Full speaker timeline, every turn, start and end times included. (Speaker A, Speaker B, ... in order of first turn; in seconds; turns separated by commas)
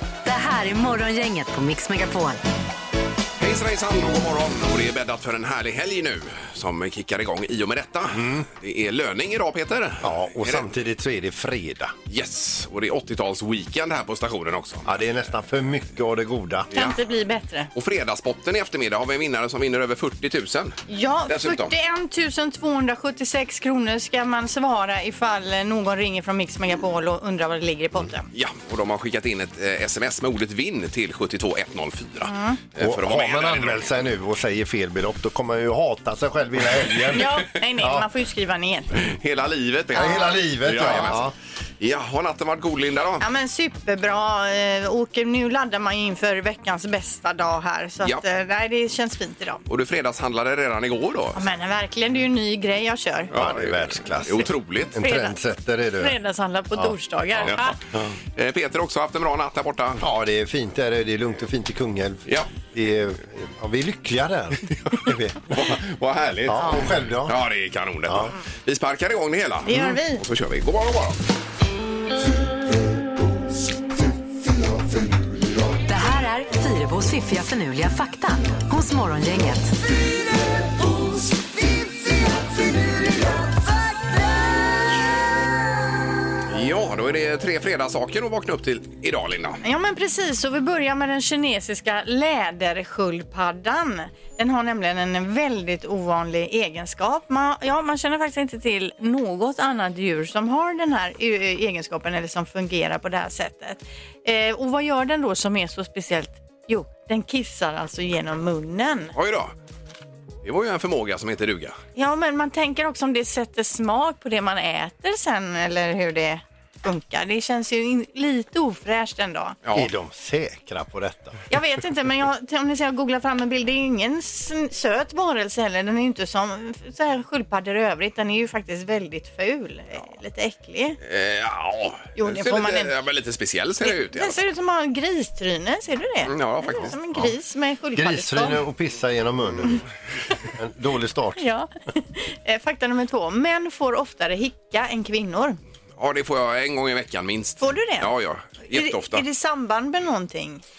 Speaker A: 0.2-2.4, Speaker B: 3.4-10.6, Speaker C: 8.1-8.5, Speaker C: 10.0-11.9, Speaker B: 12.1-14.9, Speaker C: 14.8-16.7, Speaker D: 16.7-17.7, Speaker B: 17.7-21.7, Speaker D: 20.9-28.2, Speaker B: 28.3-33.9, Speaker D: 32.2-32.6, Speaker C: 32.8-38.0, Speaker D: 37.1-38.9, Speaker B: 38.9-43.2, Speaker C: 39.9-41.3, Speaker D: 40.0-40.2, Speaker D: 43.2-49.6, Speaker B: 49.7-51.4, Speaker D: 51.3-53.3, Speaker B: 53.3-54.9, Speaker C: 53.3-56.1, Speaker D: 55.0-55.4, Speaker D: 56.0-57.8, Speaker B: 58.4-60.0, Speaker C: 60.0-65.8, Speaker B: 65.5-71.2, Speaker C: 66.5-67.3, Speaker C: 68.1-68.3, Speaker D: 69.7-70.2, Speaker A: 75.9-79.7, Speaker B: 86.5-89.6, Speaker D: 89.6-109.1, Speaker B: 109.1-109.5, Speaker B: 110.4-111.8, Speaker D: 112.0-119.6, Speaker B: 119.6-119.9, Speaker C: 119.7-121.4, Speaker D: 121.5-131.0, Speaker B: 131.0-134.3, Speaker D: 132.2-132.9, Speaker D: 133.8-138.6, Speaker B: 136.3-136.9, Speaker C: 137.9-139.8, Speaker C: 140.5-141.4, Speaker D: 141.4-145.6, Speaker B: 146.0-149.2, Speaker D: 147.6-148.1, Speaker D: 148.7-150.6